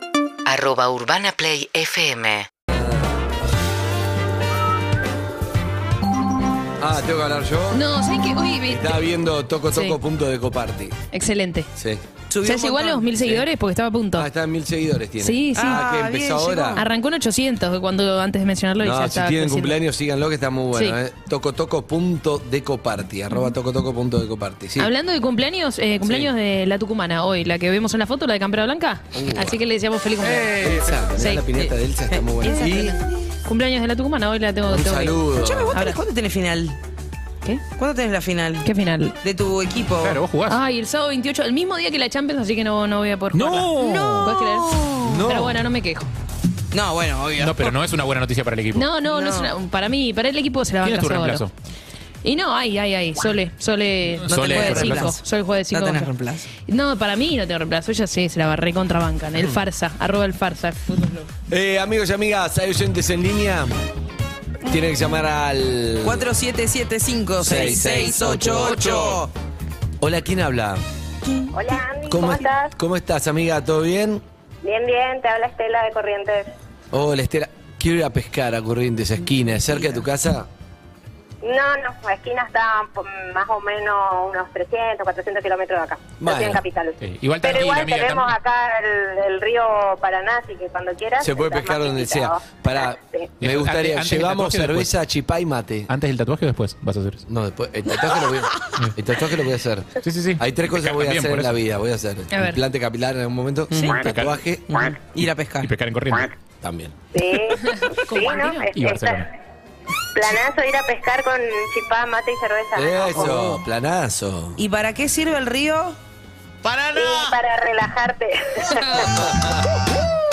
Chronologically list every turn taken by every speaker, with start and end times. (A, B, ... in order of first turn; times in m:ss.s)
0:00.4-0:02.5 A
0:02.7-0:03.0 B
0:06.8-0:07.9 B
0:07.7-0:09.0 C
0:08.7-0:11.0 B
0:09.7-0:10.0 C
0:11.1-0:11.7 C
0:11.8-0:12.0 B
0:12.3-0:13.1 D
0:12.4-0:14.3 C
0:13.2-0:13.4 B
0:14.1-0:16.8 B
0:15.2-0:15.9 C
0:15.6-0:16.8 D
0:16.7-0:19.8 C
0:18.8-0:24.9 B
0:24.8-0:31.7 C
0:26.0-0:26.3 B
0:29.1-0:29.6 B
0:30.2-0:33.0 B
0:32.1-0:33.3 D
0:32.4-0:36.0 C
0:34.7-0:35.8 B
0:35.3-0:36.8 D
0:37.7-0:38.7 D
0:38.6-0:39.2 C
0:39.2-0:40.2 D
0:40.0-0:40.6 E
0:40.5-0:46.1 C
0:43.3-0:44.3 E
0:43.7-0:45.0 D
0:45.0-0:45.6 B
0:46.7-0:47.7 D
0:47.4-0:48.9 E
0:48.7-0:51.4 C
0:49.1-0:49.5 D
0:50.8-0:51.5 E
0:52.2-0:56.1 C
0:54.2-0:55.1 E
0:54.3-0:56.5 D
0:56.7-1:01.3 C
1:01.5-1:03.8 B
1:04.6-1:06.3 B
1:06.0-1:09.3 D
1:07.4-1:09.2 B
1:08.6-1:09.2 E
1:10.0-1:10.8 B
1:11.5-1:12.7 F
1:12.1-1:14.2 B
1:14.6-1:16.5 F
1:16.9-1:20.5 B
1:21.4-1:33.3 F
1:26.2-1:26.6 B
1:27.0-1:28.3 E
1:31.2-1:35.9 B
1:33.4-1:34.9 E
1:35.9-1:37.2 E
1:37.3-1:44.8 B
1:40.0-1:41.6 E
1:42.3-1:42.6 C
1:43.7-1:44.0 D
1:44.0-1:44.4 E
1:44.7-1:45.7 D
1:45.6-1:46.3 E
1:46.6-1:46.9 B
1:47.1-1:49.2 F
1:47.6-1:48.7 C
1:48.7-1:49.3 E
1:50.1-1:53.2 F
1:52.7-1:54.6 B
1:53.2-1:53.6 D
1:54.6-1:56.0 D
1:56.6-1:57.4 D
1:56.9-1:59.2 F
1:59.3-1:59.6 B